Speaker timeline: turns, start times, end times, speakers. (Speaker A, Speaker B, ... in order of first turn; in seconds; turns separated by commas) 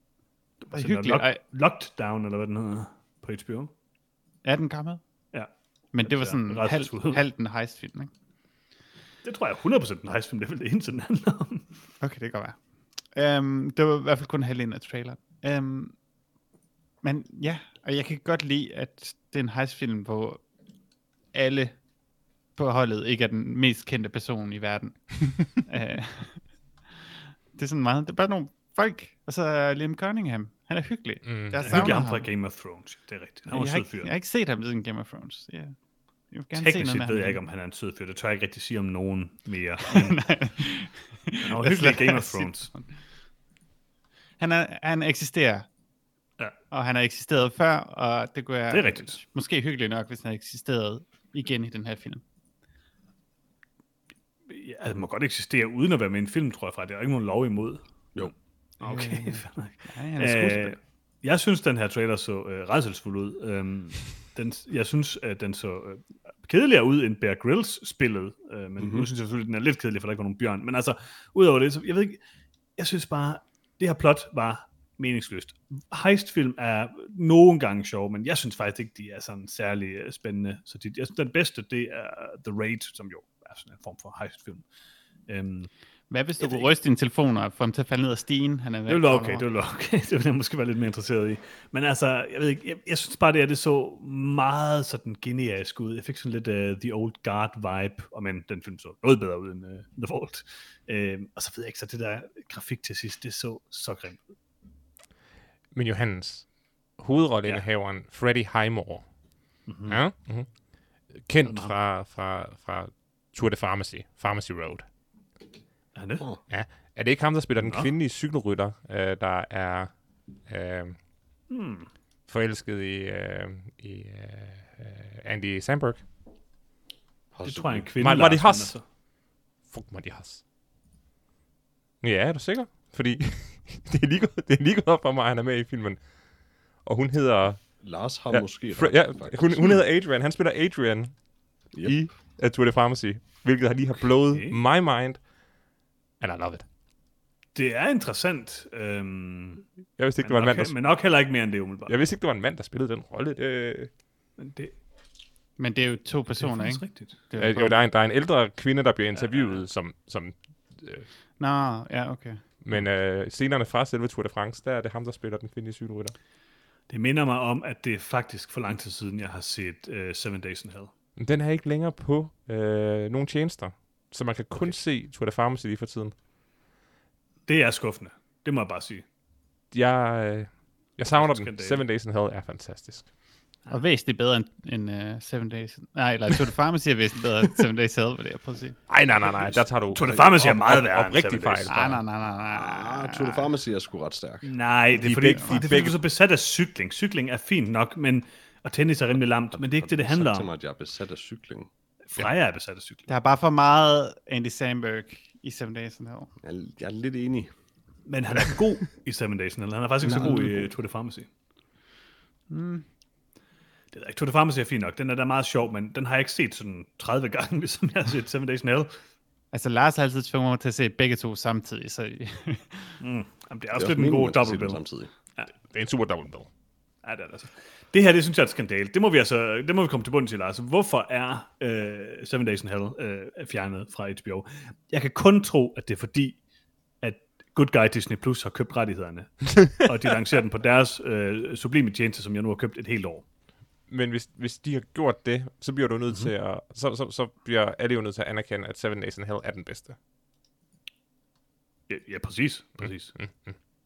Speaker A: 0.6-3.7, Speaker B: 0.7-1.4, Speaker B: 4.4-5.0, Speaker B: 5.9-8.1, Speaker A: 6.1-7.2, Speaker A: 9.2-11.7, Speaker B: 12.0-12.6, Speaker B: 13.1-15.9, Speaker B: 17.0-20.4, Speaker B: 21.3-21.8, Speaker B: 22.6-26.4, Speaker B: 27.6-32.3, Speaker C: 31.2-32.0, Speaker A: 31.6-34.1, Speaker B: 33.5-35.7, Speaker B: 36.3-37.4, Speaker A: 36.5-40.2, Speaker B: 39.9-42.9, Speaker A: 41.4-42.7, Speaker B: 44.4-45.7, Speaker B: 46.7-52.2, Speaker A: 48.7-49.2, Speaker A: 54.5-72.2, Speaker B: 58.8-60.8, Speaker D: 68.8-69.1, Speaker A: 72.8-84.6, Speaker A: 85.3-85.7, Speaker B: 86.1-89.5, Speaker A: 86.4-86.7, Speaker A: 88.9-104.2, Speaker C: 105.7-106.5, Speaker C: 107.0-109.0, Speaker A: 109.7-110.0, Speaker C: 109.9-110.5, Speaker C: 111.2-114.8, Speaker A: 111.4-111.7, Speaker A: 115.9-116.2, Speaker C: 116.5-119.9, Speaker A: 117.6-117.9, Speaker C: 120.5-121.0, Speaker A: 121.5-121.9, Speaker C: 122.3-126.0, Speaker D: 127.3-127.9, Speaker A: 127.4-128.8, Speaker C: 128.0-128.7, Speaker C: 129.7-130.4, Speaker C: 132.0-136.0, Speaker C: 136.8-137.6, Speaker D: 137.8-139.8, Speaker C: 138.3-141.1, Speaker C: 141.8-145.2, Speaker A: 144.3-144.6, Speaker C: 146.2-146.6, Speaker A: 147.5-149.6, Speaker C: 150.0-150.7, Speaker A: 150.2-151.9, Speaker C: 151.9-153.9, Speaker A: 154.4-154.7, Speaker B: 155.6-157.8, Speaker A: 156.4-157.1, Speaker C: 157.4-161.1, Speaker A: 159.2-159.6, Speaker B: 161.4-162.4, Speaker C: 162.6-166.1, Speaker A: 166.9-170.9, Speaker C: 171.2-176.1, Speaker A: 177.4-179.0, Speaker C: 179.7-183.1, Speaker A: 181.1-181.8, Speaker B: 183.7-188.8, Speaker C: 188.9-192.0, Speaker A: 189.9-191.7, Speaker B: 191.7-193.5, Speaker D: 192.5-194.5, Speaker A: 194.4-200.5, Speaker C: 194.9-196.0, Speaker D: 199.5-201.7, Speaker A: 202.1-203.1, Speaker B: 203.1-206.3, Speaker D: 206.4-207.5, Speaker A: 208.1-211.3, Speaker D: 210.0-210.7, Speaker B: 212.5-212.8, Speaker A: 213.9-218.9, Speaker B: 219.5-223.0, Speaker A: 223.0-224.8, Speaker D: 223.7-225.1, Speaker C: 225.7-226.5, Speaker A: 227.0-236.4, Speaker A: 237.0-243.2, Speaker C: 243.9-249.9, Speaker A: 251.9-253.2